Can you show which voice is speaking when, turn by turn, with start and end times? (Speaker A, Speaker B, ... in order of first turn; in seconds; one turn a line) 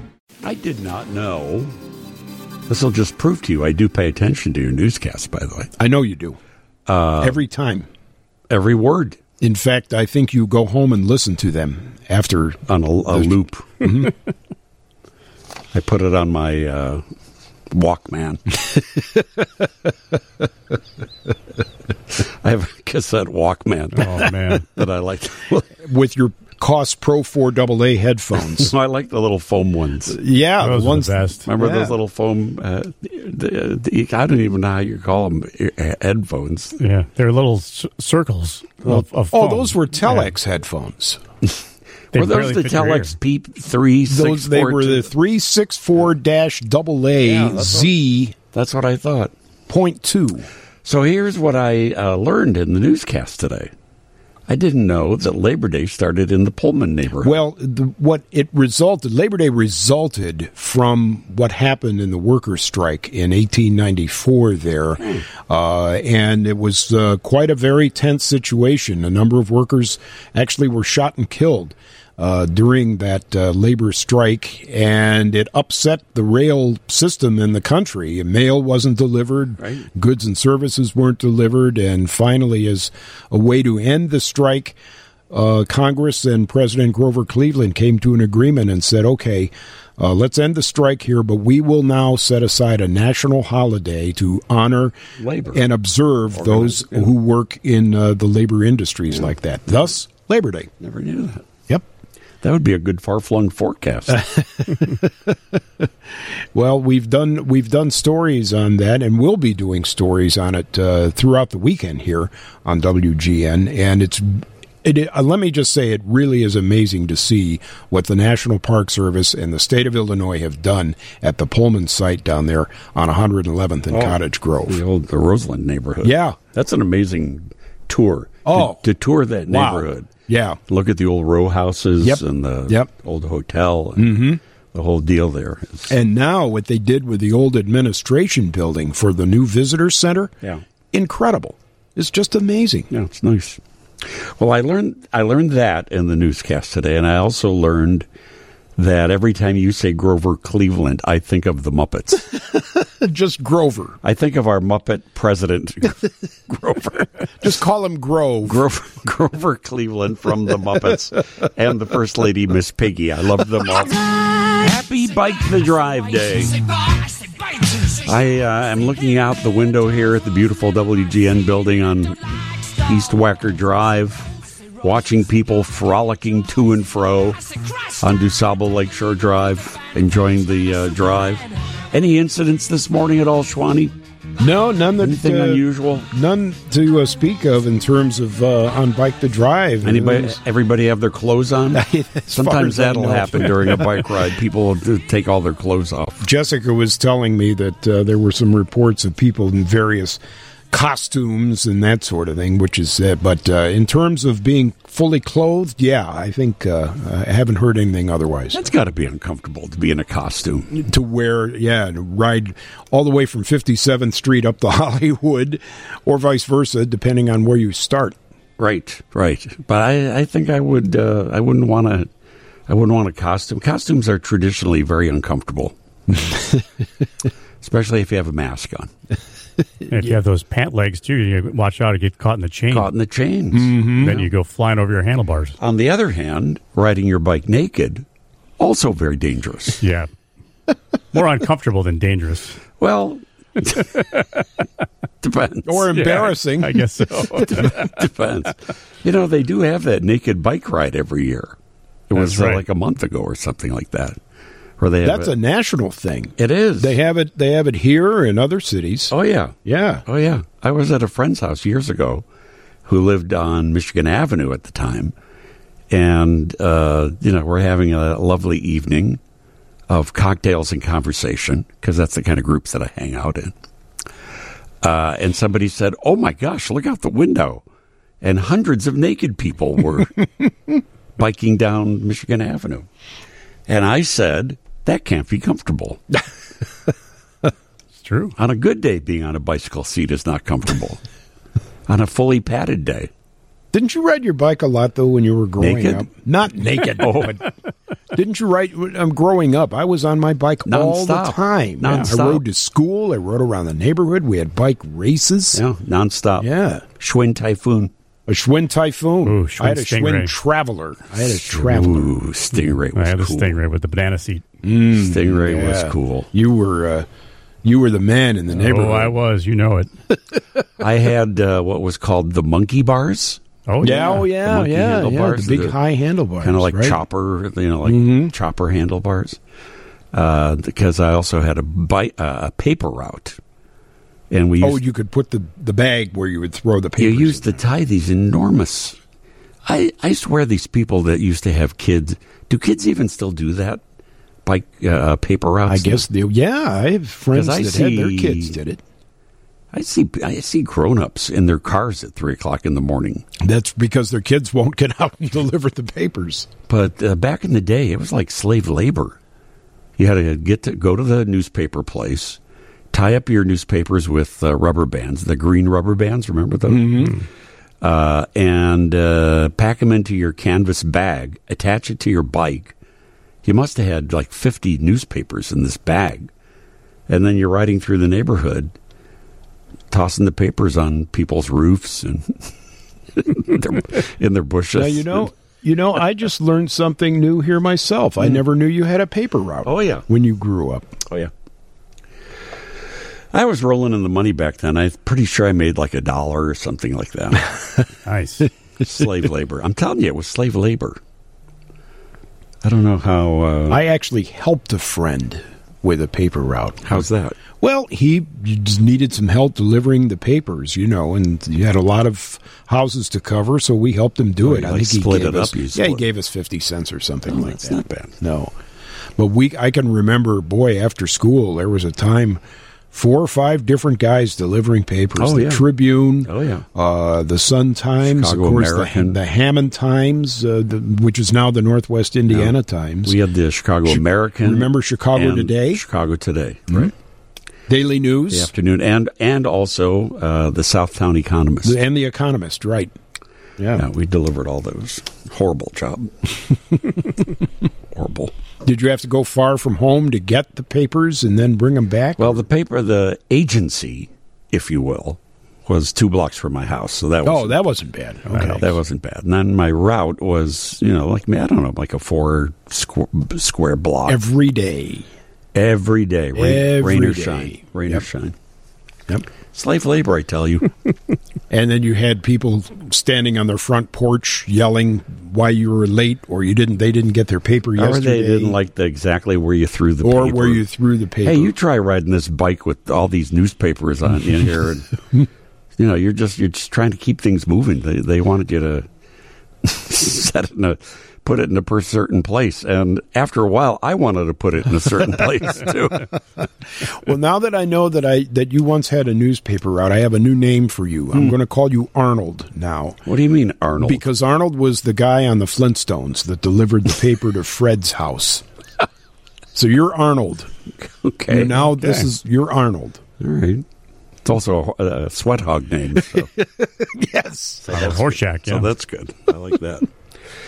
Speaker A: 0.4-1.7
Speaker A: 2.7-5.7
Speaker B: 5.8-6.4
Speaker A: 6.9-7.4
Speaker B: 7.2-7.9
Speaker A: 8.5-9.2
Speaker B: 9.4-14.1
Speaker A: 12.7-13.8
Speaker A: 15.7-17.0
Speaker A: 17.7-18.4
Speaker A: 22.2-25.7
Speaker C: 23.9-24.7
Speaker B: 25.8-28.7
Speaker A: 28.4-30.2
Speaker B: 30.1-31.9
Speaker C: 30.6-31.4
Speaker A: 31.4-36.8
Speaker C: 36.8-40.3
Speaker B: 38.9-41.2
Speaker A: 42.1-45.1
Speaker C: 42.1-43.1
Speaker B: 44.1-48.3
Speaker A: 47.2-47.9
Speaker A: 48.5-49.3
Speaker B: 49.7-50.5
Speaker A: 50.8-53.7
Speaker A: 54.5-57.4
Speaker B: 57.2-84.8
Speaker A: 79.6-79.9
Speaker B: 85.3-94.9
Speaker A: 95.2-95.7
Speaker B: 95.5-100.7
Speaker A: 96.3-97.1
Speaker A: 100.8-101.5
Speaker A: 102.4-104.2
Speaker B: 104.1-105.9
Speaker B: 106.5-124.8
Speaker A: 123.9-130.1
Speaker B: 126.0-126.4
Speaker B: 128.4-128.8
Speaker B: 129.5-130.6
Speaker A: 130.7-135.9
Speaker B: 132.0-132.9
Speaker B: 134.0-134.4
Speaker B: 135.9-140.3
Speaker B: 140.9-142.9
Speaker A: 142.9-148.1
Speaker A: 148.8-152.3
Speaker B: 152.5-154.0
Speaker A: 154.0-157.3
Speaker B: 157.4-158.6
Speaker A: 158.4-166.6
Speaker A: 167.8-172.2
Speaker A: 172.8-177.4
Speaker A: 178.0-183.9
Speaker B: 184.4-190.4
Speaker A: 185.0-186.1
Speaker A: 189.8-196.3
Speaker B: 191.7-194.1
Speaker B: 196.2-200.2
Speaker B: 200.7-208.6
Speaker A: 208.5-210.8
Speaker B: 210.7-218.2
Speaker A: 218.6-222.1
Speaker A: 222.7-225.7
Speaker B: 226.2-226.6
Speaker A: 227.6-228.9
Speaker C: 229.9-232.9
Speaker A: 232.7-234.3
Speaker B: 233.5-234.2
Speaker C: 233.9-235.6
Speaker A: 235.6-238.1
Speaker A: 238.6-239.8
Speaker C: 239.8-240.1
Speaker C: 241.1-242.6
Speaker A: 242.8-244.1
Speaker A: 245.2-246.2
Speaker B: 245.7-246.9
Speaker C: 245.9-248.0
Speaker A: 247.3-251.6
Speaker A: 252.1-254.2
Speaker C: 252.1-252.6
Speaker A: 254.8-255.3
Speaker B: 255.0-259.1
Speaker A: 256.4-256.9
Speaker A: 259.1-259.5
Speaker B: 259.6-260.0
Speaker A: 260.1-262.2
Speaker A: 262.9-265.1
Speaker A: 265.9-269.2
Speaker A: 269.9-273.5
Speaker A: 274.8-277.6
Speaker A: 278.2-280.3
Speaker A: 281.2-282.9
Speaker A: 283.7-286.0
Speaker C: 288.0-288.3
Speaker A: 288.4-291.0
Speaker A: 291.9-293.1
Speaker B: 293.7-297.5
Speaker A: 295.6-296.1
Speaker A: 296.8-297.4
Speaker B: 298.1-305.6
Speaker A: 300.6-302.4
Speaker A: 305.5-307.9
Speaker B: 306.4-306.8
Speaker B: 308.3-312.1
Speaker C: 309.2-310.3
Speaker A: 311.4-313.6
Speaker C: 312.9-314.4
Speaker B: 314.6-317.1
Speaker A: 315.0-316.3
Speaker B: 317.6-319.1
Speaker C: 318.5-319.9
Speaker A: 320.8-325.8
Speaker C: 323.7-324.2
Speaker B: 323.8-327.0
Speaker A: 326.4-329.4
Speaker B: 327.8-328.3
Speaker A: 330.1-333.4
Speaker A: 334.3-334.8
Speaker B: 334.6-337.6
Speaker A: 337.0-339.0
Speaker A: 339.6-343.8
Speaker A: 344.4-346.1
Speaker B: 345.7-348.8
Speaker A: 347.3-348.6
Speaker A: 349.7-353.2
Speaker B: 353.4-356.5
Speaker A: 356.7-359.2
Speaker A: 360.0-362.4
Speaker A: 362.9-367.1
Speaker B: 366.7-367.2
Speaker A: 367.8-372.7
Speaker A: 373.4-376.3
Speaker A: 377.1-378.7
Speaker A: 379.9-382.4
Speaker A: 383.2-385.3
Speaker B: 384.7-390.9
Speaker A: 389.6-390.1
Speaker A: 393.3-397.5
Speaker C: 398.1-398.5
Speaker A: 398.8-401.0
Speaker A: 402.6-403.8
Speaker B: 403.7-407.0
Speaker A: 406.8-407.4
Speaker B: 407.6-418.5
Speaker A: 414.4-416.0
Speaker A: 417.3-418.1
Speaker B: 419.2-433.1
Speaker A: 425.2-425.6
Speaker A: 426.2-426.6
Speaker A: 428.0-429.2
Speaker A: 432.3-436.9
Speaker B: 433.9-435.8
Speaker B: 437.7-438.5
Speaker A: 438.3-441.8
Speaker B: 441.6-442.9
Speaker B: 443.6-443.8
Speaker A: 443.7-446.4
Speaker A: 447.9-448.3
Speaker B: 448.6-452.4
Speaker A: 452.2-457.6
Speaker B: 457.2-458.6
Speaker C: 458.3-458.6
Speaker A: 458.5-464.2
Speaker B: 464.1-465.1
Speaker A: 465.5-468.3
Speaker B: 466.3-468.0
Speaker A: 469.5-470.7
Speaker B: 471.5-478.6
Speaker A: 477.8-480.6
Speaker B: 480.0-481.5
Speaker A: 481.2-484.9
Speaker A: 485.8-488.9
Speaker A: 489.6-496.1
Speaker B: 496.6-503.0
Speaker A: 503.1-504.0
Speaker B: 503.8-508.4
Speaker B: 509.5-510.5
Speaker A: 510.8-511.5
Speaker B: 511.3-513.0
Speaker C: 511.8-512.0
Speaker A: 513.2-513.6
Speaker A: 514.2-516.3
Speaker B: 516.1-517.9
Speaker A: 517.6-519.9
Speaker C: 517.7-518.7